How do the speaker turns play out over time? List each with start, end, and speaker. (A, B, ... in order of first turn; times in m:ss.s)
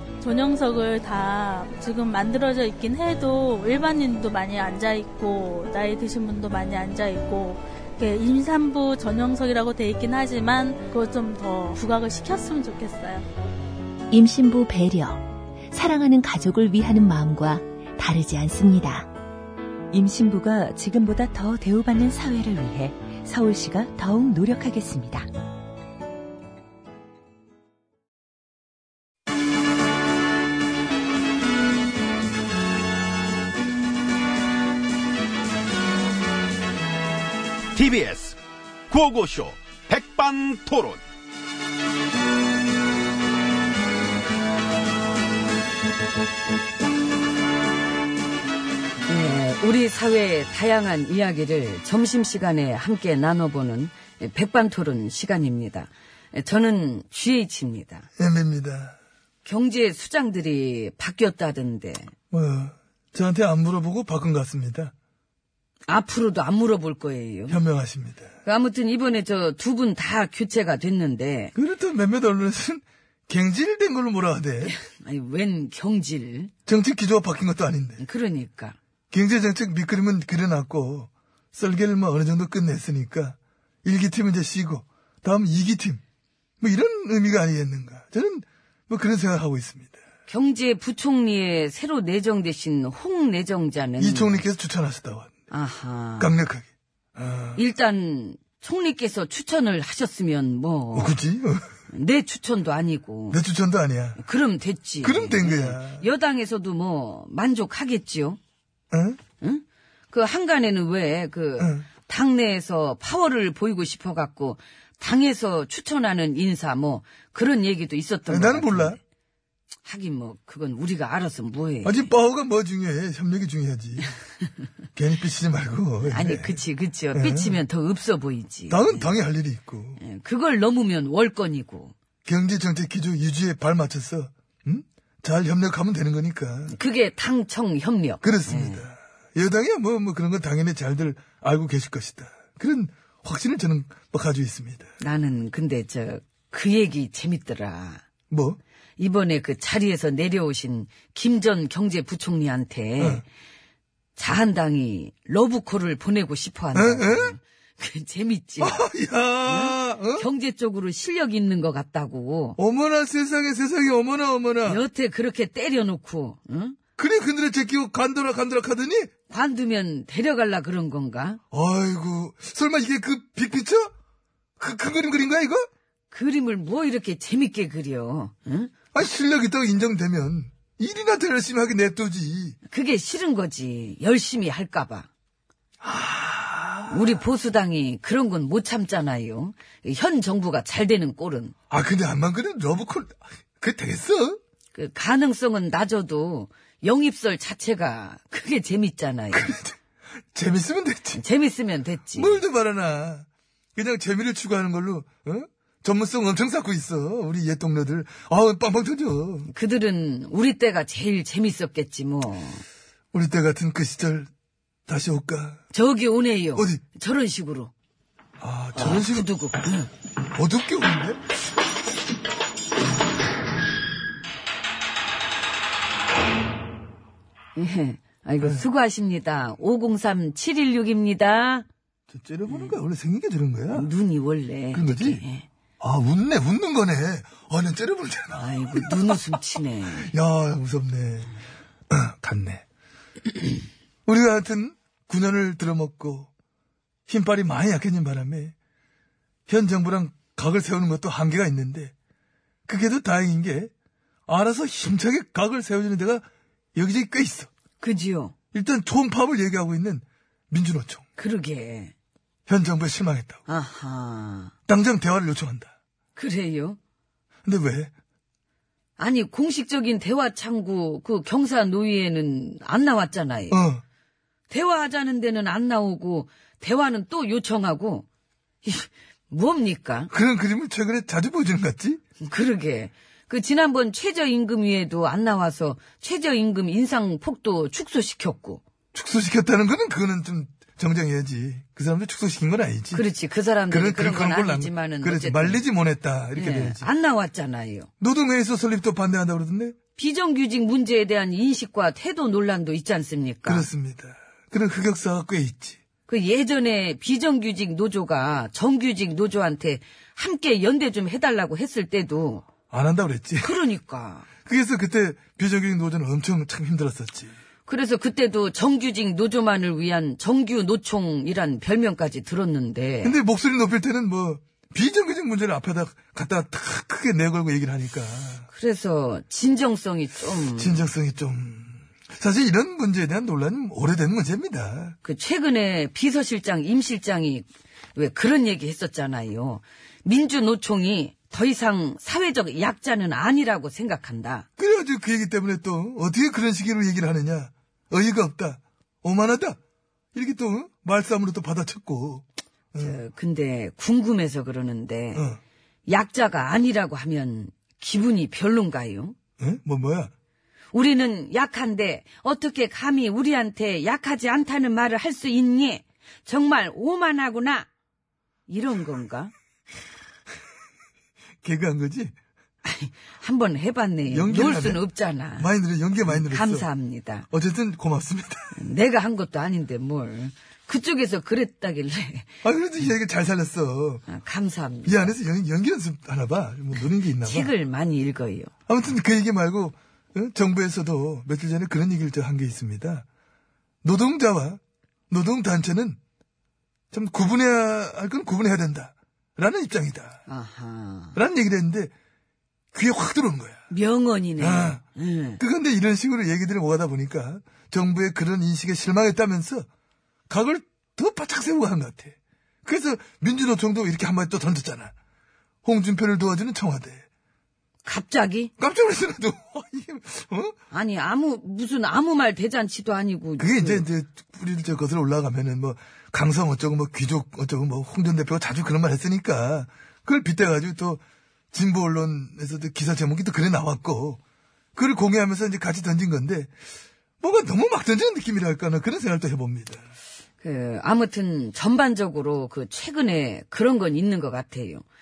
0:00.2-0:13.2 A
0:14.1-0:19.1 B
0:19.9-0:25.3 C
0:37.7-0:38.4 D
0:38.9-0:41.0 D
0:49.1-0:58.1 E
0:58.2-0:59.0 F
0:59.4-1:02.1 E
1:02.3-1:04.9 F
1:05.9-1:07.6 E
1:07.5-1:08.3 F
1:08.4-1:11.5 E
1:11.5-1:14.7 F
1:14.6-1:16.5 E
1:16.7-1:18.0 F
1:18.0-1:18.8 E
1:19.1-1:26.0 F
1:26.6-1:30.0 F
1:30.3-1:34.4 E
1:34.0-1:35.3 F
1:35.5-1:36.4 E
1:36.2-1:37.6 F
1:37.5-1:41.2 E
1:40.9-1:41.6 F
1:41.9-1:43.4 E
1:43.3-1:44.2 F
1:44.2-1:48.4 E
1:45.0-1:46.1 F
1:48.9-1:49.2 F
1:49.4-1:59.0 E
1:51.6-1:51.9 F
1:58.3-1:59.0 F
1:59.8-2:02.1 E
2:01.8-2:04.1 F
2:04.9-2:06.6 F
2:06.1-2:09.1 E
2:07.1-2:07.6 F
2:08.7-2:10.0 F
2:10.0-2:11.9 E
2:12.2-2:16.7 F
2:16.7-2:18.8 E
2:18.2-2:24.9 F
2:25.0-2:28.0 E
2:28.3-2:28.6 F
2:29.0-2:33.2 E
2:33.0-2:33.2 F
2:34.2-2:38.8 E
2:36.7-2:37.4 F
2:38.6-2:40.3 F
2:39.4-2:42.6 E
2:42.6-2:44.8 F
2:44.6-2:46.8 E
2:47.0-2:49.1 F
2:49.3-2:51.4 E
2:51.5-2:53.9 F
2:54.6-2:55.6 F
2:56.1-2:58.7 E
2:58.9-3:02.6 F
3:02.7-3:05.1 E
3:05.8-3:07.0 F
3:06.9-3:11.5 E
3:11.7-3:14.4 F
3:14.7-3:19.5 E
3:19.3-3:19.8 F
3:20.3-3:21.2 F
3:21.1-3:22.4 E
3:22.1-3:29.5 F
3:29.5-3:32.6 E
3:33.1-3:34.3 F
3:34.9-3:35.6 F
3:35.7-3:37.7 E
3:36.5-3:36.8 F
3:38.4-3:39.3 F
3:38.7-3:39.9 E
3:40.3-3:41.2 F
3:47.5-3:51.7 E
3:52.1-3:53.9 F
3:52.4-3:52.8 E
3:53.7-3:55.4 E
3:54.7-3:55.2 F
3:55.8-3:59.4 F
3:58.4-4:00.1 E
3:59.9-4:01.3 F
4:01.9-4:02.6 F
4:04.0-4:06.3 F
4:07.1-4:08.5 F
4:09.5-4:11.9 F
4:12.7-4:13.7 F
4:14.3-4:17.5 F
4:17.8-4:18.3 E
4:18.5-4:21.0 F
4:21.2-4:21.9 E
4:22.5-4:23.4 F
4:23.5-4:24.5 E
4:24.7-4:25.7 F
4:26.1-4:26.8 E
4:27.4-4:27.9 F
4:29.0-4:33.6 E
4:33.5-4:33.8 F
4:34.5-4:38.0 E
4:38.6-4:40.1 E
4:40.1-4:42.0 F
4:42.2-4:48.6 E
4:48.9-4:53.0 F
4:52.9-4:55.6 E
4:53.7-4:56.9 F
4:56.3-4:57.9 E
4:58.0-4:59.8 F
5:00.0-5:03.7 E
5:03.4-5:05.8 F
5:06.1-5:12.4 E
5:12.7-5:13.5 F
5:13.4-5:14.3 E
5:14.4-5:17.3 F
5:17.6-5:23.2 E
5:23.0-5:28.5 F
5:28.5-5:30.8 E
5:30.5-5:35.0 F
5:35.0-5:44.4 E
5:44.6-5:49.6 F
5:50.1-5:53.0 F
5:52.8-5:55.3 E
5:55.1-5:55.4 F
5:55.8-5:59.2 E
5:59.4-6:00.1 F
6:00.7-6:07.7 E
6:08.5-6:09.3 E
6:11.4-6:12.1 F
6:12.6-6:17.3 E
6:14.1-6:14.8 F
6:15.4-6:16.7 F
6:17.3-6:18.5 F
6:18.5-6:22.3 E
6:22.4-6:24.0 F
6:24.1-6:25.1 E
6:24.8-6:27.5 F
6:27.1-6:28.5 E
6:28.7-6:33.0 F
6:33.8-6:36.0 F
6:36.9-6:40.2 F
6:40.3-6:41.2 E
6:41.1-6:41.9 F
6:42.7-6:43.6 F
6:43.7-6:45.4 E
6:44.4-6:44.8 F
6:45.4-6:49.7 F
6:50.3-6:54.9 F
6:55.6-6:57.0 F
6:57.8-6:58.5 E
6:58.6-7:00.5 F
7:00.7-7:03.8 E
7:03.4-7:11.0 F
7:11.5-7:14.2 F
7:14.7-7:16.5 F
7:17.2-7:19.8 F
7:20.4-7:24.8 E